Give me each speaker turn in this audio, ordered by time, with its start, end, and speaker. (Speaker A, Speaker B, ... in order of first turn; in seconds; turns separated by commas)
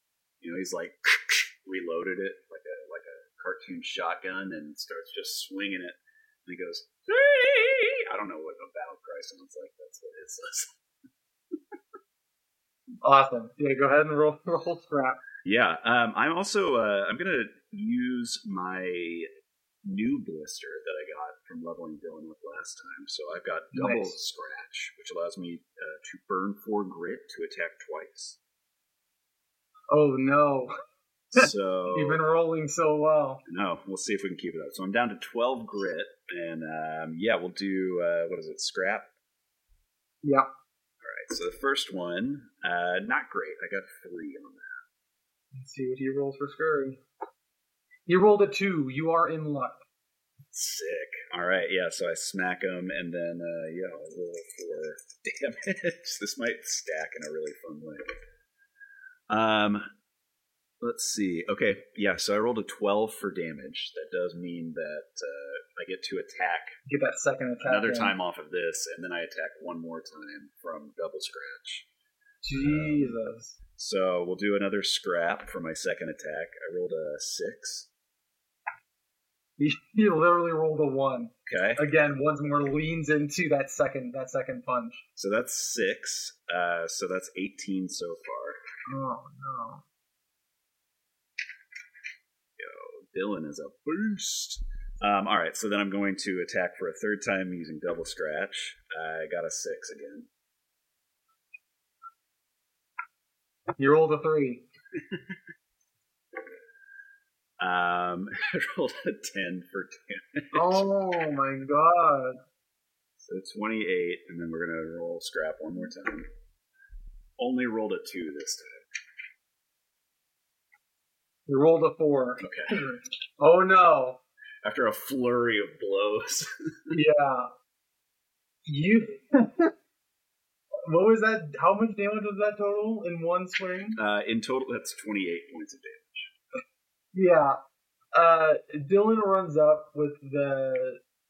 Speaker A: 0.4-10.7, Speaker B: 13.0-15.2, Speaker A: 15.4-19.3, Speaker A: 19.8-28.4, Speaker B: 23.7-24.1, Speaker B: 29.9-30.7, Speaker A: 31.3-32.2, Speaker B: 31.4-33.4, Speaker A: 33.5-39.1, Speaker B: 40.2-40.5, Speaker A: 41.0-44.8, Speaker B: 45.5-47.0, Speaker B: 48.1-49.8, Speaker A: 50.5-58.1, Speaker A: 59.3-59.8, Speaker A: 60.8-66.8, Speaker B: 66.9-68.1, Speaker A: 67.6-71.9, Speaker B: 72.4-73.6, Speaker A: 72.6-73.1, Speaker A: 73.8-77.9, Speaker B: 79.6-85.0, Speaker A: 81.5-81.8, Speaker A: 85.2-88.6, Speaker B: 88.9-89.8, Speaker A: 92.6-100.3, Speaker B: 103.8-104.6, Speaker A: 107.6-110.8, Speaker B: 110.5-112.4, Speaker A: 113.2-116.3, Speaker A: 117.4-118.8, Speaker B: 121.5-124.2, Speaker A: 122.4-122.8, Speaker A: 124.6-126.9, Speaker B: 126.9-127.5, Speaker B: 128.6-129.7, Speaker B: 130.8-134.0, Speaker A: 133.9-136.3, Speaker B: 137.1-137.6, Speaker B: 138.1-141.0